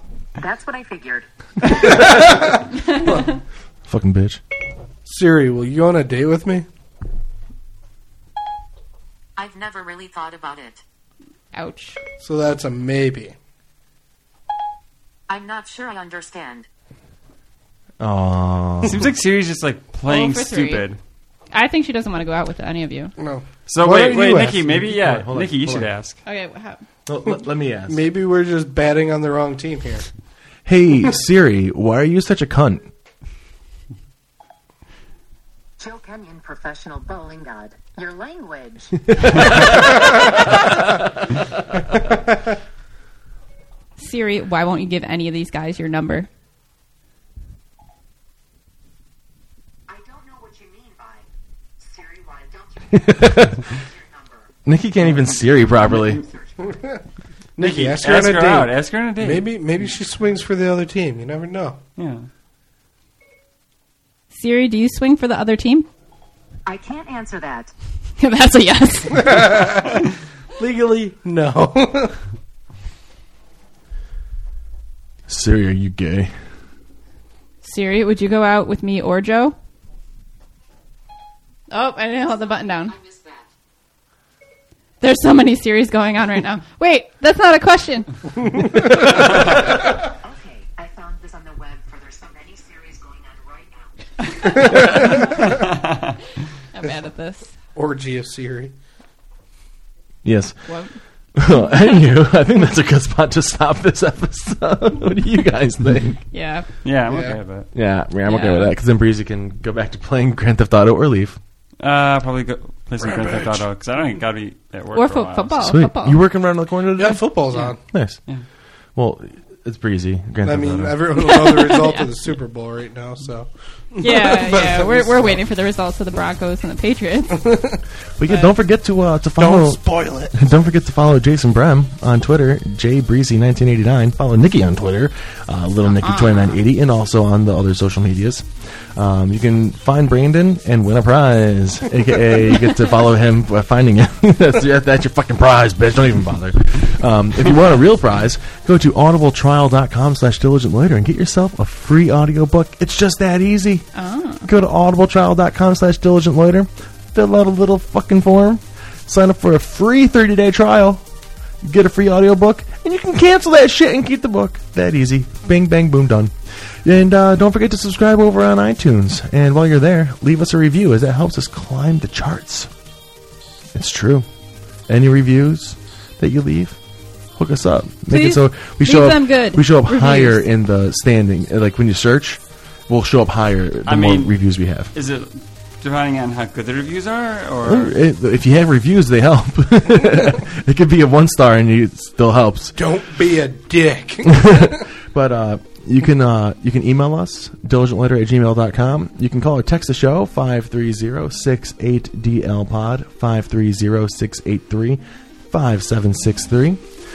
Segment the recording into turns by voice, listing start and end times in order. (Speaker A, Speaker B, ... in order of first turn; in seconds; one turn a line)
Speaker A: 0.4-2.6
Speaker B: 3.0-3.2
Speaker B: 3.9-4.4
Speaker C: 5.0-6.7
Speaker A: 9.4-10.8
Speaker D: 11.5-12.0
Speaker C: 12.2-13.3
Speaker A: 15.3-16.7
Speaker B: 18.0-19.1
Speaker E: 18.8-21.0
Speaker D: 20.1-20.8
Speaker D: 21.5-23.1
Speaker C: 23.2-24.6
Speaker E: 23.7-26.2
Speaker B: 24.1-25.9
Speaker D: 26.2-26.8
Speaker B: 27.1-28.0
Speaker C: 27.9-30.1
Speaker B: 30.7-32.9
Speaker A: 35.8-40.5
Speaker D: 44.0-46.3
Speaker A: 49.9-51.3
Speaker A: 51.8-54.5
Speaker B: 52.9-53.6
Speaker B: 54.7-56.2
Speaker A: 56.1-56.8
Speaker C: 56.7-57.0
Speaker C: 57.6-61.8
Speaker E: 57.6-59.5
Speaker E: 62.0-62.3
Speaker D: 64.3-65.9
Speaker A: 66.7-67.7
Speaker D: 68.2-69.6
Speaker C: 69.2-70.0
Speaker C: 70.6-72.2
Speaker B: 75.3-76.3
Speaker D: 77.6-79.5
Speaker D: 81.7-83.0
Speaker A: 82.9-83.5
Speaker D: 85.0-88.1
Speaker A: 89.6-95.3
Speaker D: 96.7-97.5
Speaker C: 97.8-98.7
Speaker B: 100.2-100.7
Speaker D: 100.7-100.9
Speaker B: 101.4-106.2
Speaker D: 106.3-106.7
Speaker E: 106.8-107.7
Speaker C: 107.1-107.4
Speaker B: 107.7-111.4
Speaker D: 108.2-108.8
Speaker E: 111.8-115.6
Speaker C: 113.0-113.6
Speaker D: 115.0-116.2
Speaker B: 115.6-117.3
Speaker C: 117.0-117.8
Speaker B: 117.9-118.2
Speaker B: 119.0-121.0
Speaker C: 120.4-125.4
Speaker D: 121.2-122.1
Speaker D: 124.0-127.5
Speaker C: 127.5-127.8
Speaker B: 128.2-153.9
Speaker D: 128.3-128.5
Speaker C: 129.4-130.4
Speaker D: 136.0-136.5
Speaker D: 153.9-154.5
Speaker B: 154.4-161.0
Speaker B: 161.6-172.7
Speaker B: 173.7-174.3
Speaker B: 174.9-176.8
Speaker B: 177.4-184.9
Speaker D: 178.1-180.4
Speaker E: 183.9-188.0
Speaker B: 187.6-192.8
Speaker C: 192.8-194.9
Speaker B: 194.3-206.8